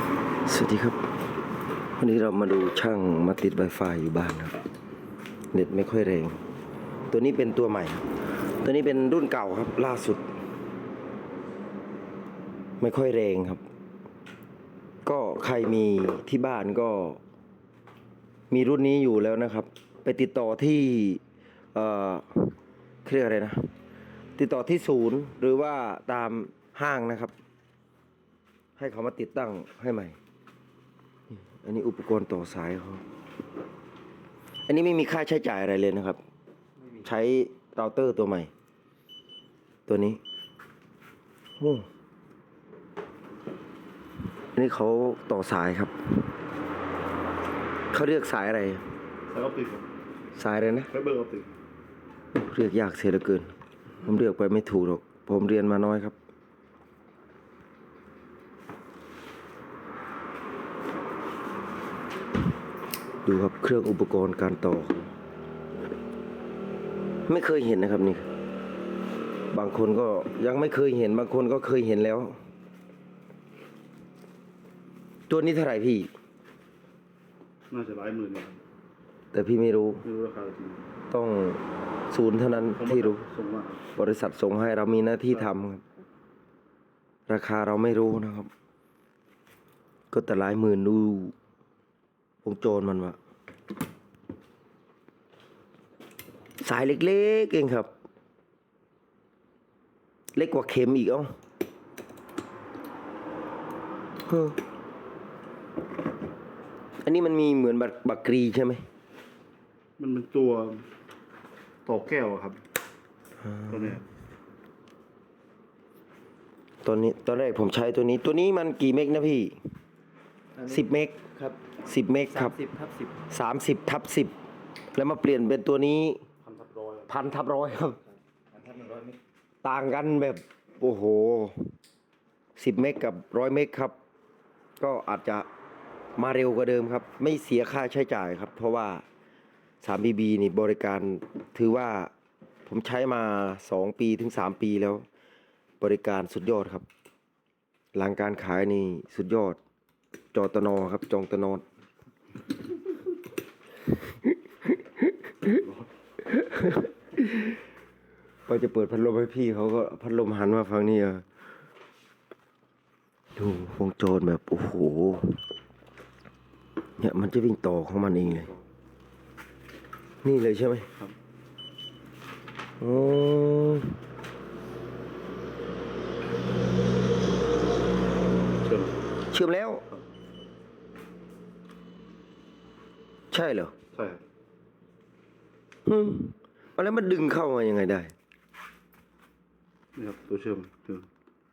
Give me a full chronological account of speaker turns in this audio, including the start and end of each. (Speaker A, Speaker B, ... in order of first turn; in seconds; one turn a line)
Speaker A: 0.5-1.1
Speaker A: 2.0-4.6
Speaker A: 5.5-6.4
Speaker A: 7.1-8.1
Speaker A: 8.6-10.2
Speaker A: 12.8-13.6
Speaker A: 15.1-17.2
Speaker A: 18.5-21.2
Speaker A: 21.8-23.7
Speaker A: 24.4-27.3
Speaker A: 28.8-30.2
Speaker A: 31.3-33.0
Speaker A: 34.7-36.2
Speaker A: 37.0-38.5
Speaker A: 39.9-40.2
Speaker A: 41.6-41.9
Speaker A: 44.5-46.3
Speaker A: 47.9-48.8
Speaker B: 49.3-49.9
Speaker A: 50.4-50.9
Speaker B: 50.9-51.6
Speaker A: 52.3-53.5
Speaker A: 54.0-56.1
Speaker A: 63.2-65.1
Speaker A: 67.3-68.3
Speaker A: 69.5-72.4
Speaker A: 75.3-76.1
Speaker B: 77.7-78.6
Speaker A: 79.3-80.0
Speaker B: 80.0-80.8
Speaker A: 81.1-83.2
Speaker B: 82.8-83.8
Speaker A: 84.0-85.8
Speaker A: 87.3-88.5
Speaker A: 90.1-91.3
Speaker A: 92.4-93.2
Speaker A: 96.6-97.9
Speaker A: 100.3-101.3
Speaker A: 104.3-104.6
Speaker A: 107.0-108.8
Speaker B: 110.0-110.8
Speaker B: 111.9-112.6
Speaker A: 113.4-114.0
Speaker B: 113.7-114.0
Speaker A: 116.8-119.6
Speaker C: 120.6-121.6
Speaker A: 120.7-121.2
Speaker A: 121.8-122.6
Speaker C: 122.2-123.2
Speaker A: 123.3-124.3
Speaker A: 124.9-126.2
Speaker B: 126.4-127.1
Speaker A: 127.1-128.0
Speaker C: 128.5-129.2
Speaker A: 129.6-131.7
Speaker A: 132.6-133.9
Speaker A: 134.8-135.5
Speaker A: 136.2-139.0
Speaker A: 139.8-142.1
Speaker A: 142.7-145.1
Speaker A: 145.8-146.8
Speaker A: 147.9-149.6
Speaker A: 150.3-151.6
Speaker B: 155.5-155.9
Speaker A: 156.3-157.5
Speaker A: 158.5-161.2
Speaker A: 163.4-165.4
Speaker A: 167.0-168.5
Speaker B: 168.2-168.6
Speaker A: 170.2-170.9
Speaker A: 172.8-174.0
Speaker B: 178.6-179.0
Speaker A: 179.3-179.9
Speaker A: 183.3-183.7
Speaker B: 183.9-184.2
Speaker A: 185.9-188.1
Speaker B: 189.9-191.1